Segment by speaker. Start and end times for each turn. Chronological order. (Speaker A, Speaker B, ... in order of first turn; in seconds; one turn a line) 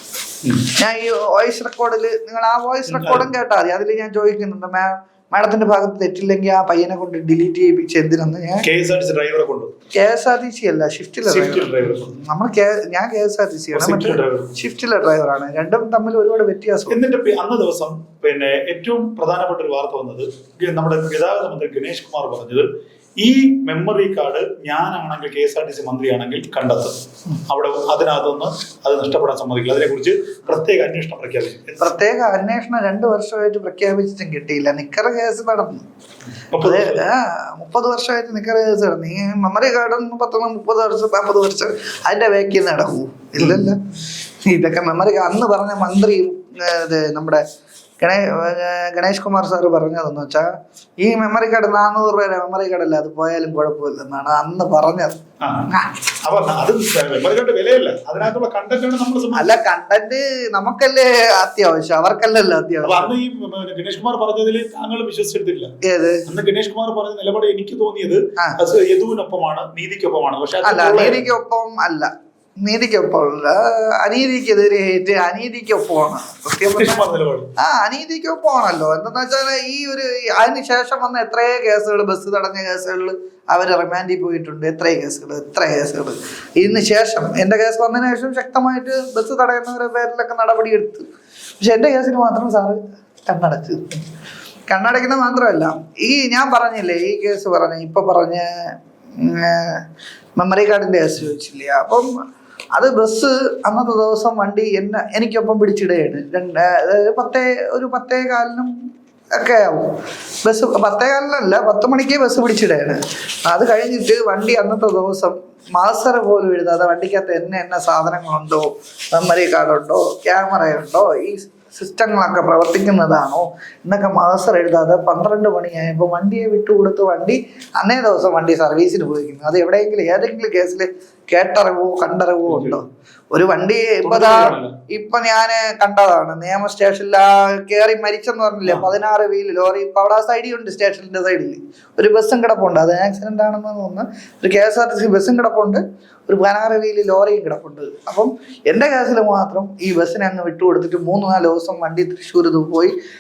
Speaker A: 0.7-8.7
Speaker B: 2.9-3.3
Speaker B: 8.6-9.7
Speaker A: 10.0-17.0
Speaker B: 11.2-12.1
Speaker B: 13.7-14.6
Speaker B: 16.9-22.7
Speaker B: 23.2-31.9
Speaker A: 31.8-35.9
Speaker B: 36.5-37.0
Speaker A: 36.6-43.8
Speaker B: 43.4-43.7
Speaker A: 44.4-47.4
Speaker A: 48.0-50.5
Speaker A: 51.0-55.9
Speaker B: 55.4-55.7
Speaker B: 56.2-59.5
Speaker A: 59.3-63.1
Speaker B: 62.8-65.7
Speaker A: 65.8-66.2
Speaker B: 66.3-71.3
Speaker A: 70.6-91.1
Speaker B: 76.7-77.5
Speaker A: 91.6-94.0
Speaker A: 94.7-102.1
Speaker A: 102.7-108.7
Speaker A: 109.3-152.9
Speaker B: 132.5-132.8
Speaker B: 134.0-134.8